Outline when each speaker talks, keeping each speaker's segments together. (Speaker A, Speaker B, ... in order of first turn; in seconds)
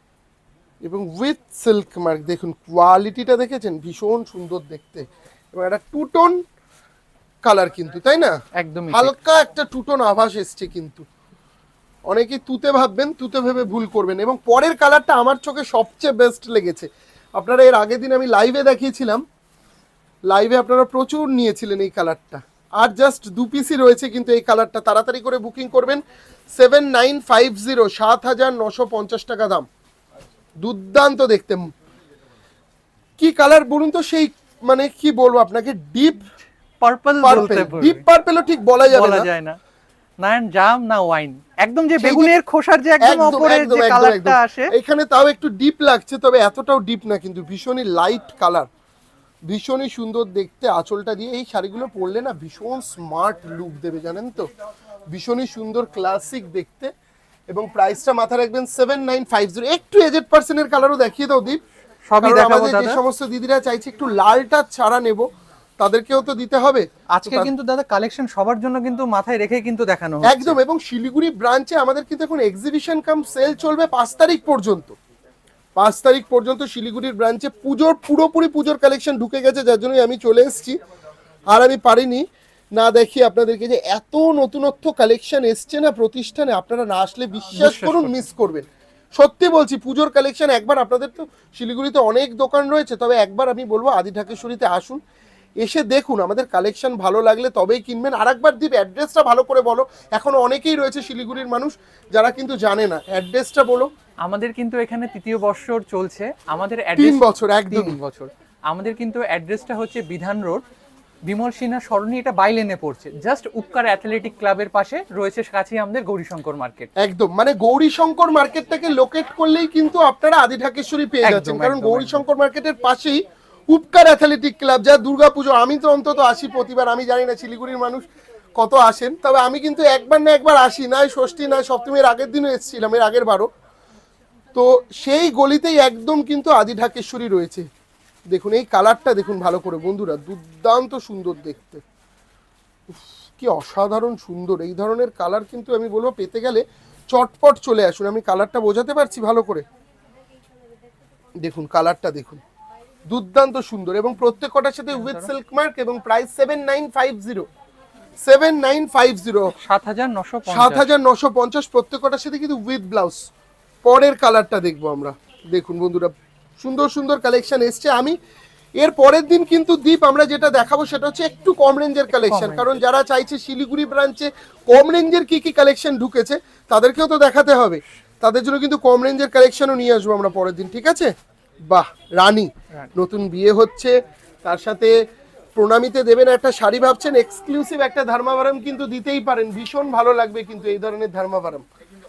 Speaker A: 0.8-6.4, 7.4-8.4, 8.9-11.1, 12.1-19.2, 20.3-26.0, 26.5-29.7, 30.6-31.7, 33.2-36.3, 37.2-39.3, 42.0-42.3, 43.0-48.7, 49.5-54.5, 55.1-56.9, 57.5-61.6, 62.2-65.3, 65.8-67.5, 70.2-75.0, 75.8-80.8, 81.5-82.2, 82.8-95.0, 95.6-103.9, 107.0-108.0, 117.0-128.0, 128.6-133.5, 134.5-137.7, 138.3-141.8, 142.9-149.6, 151.4-152.4, 153.1-157.5, 158.2-159.5, 160.5-163.2, 163.8-168.2, 168.8-181.1, 181.7-184.9, 185.5-191.6
Speaker B: 8.6-9.1, 36.8-38.0, 38.9-39.6, 40.2-44.7, 62.1-63.0, 67.1-70.5, 87.5-88.2, 104.2-110.6, 111.3-116.9, 121.2-122.2, 155.0-155.2, 159.6-160.8, 172.1-172.7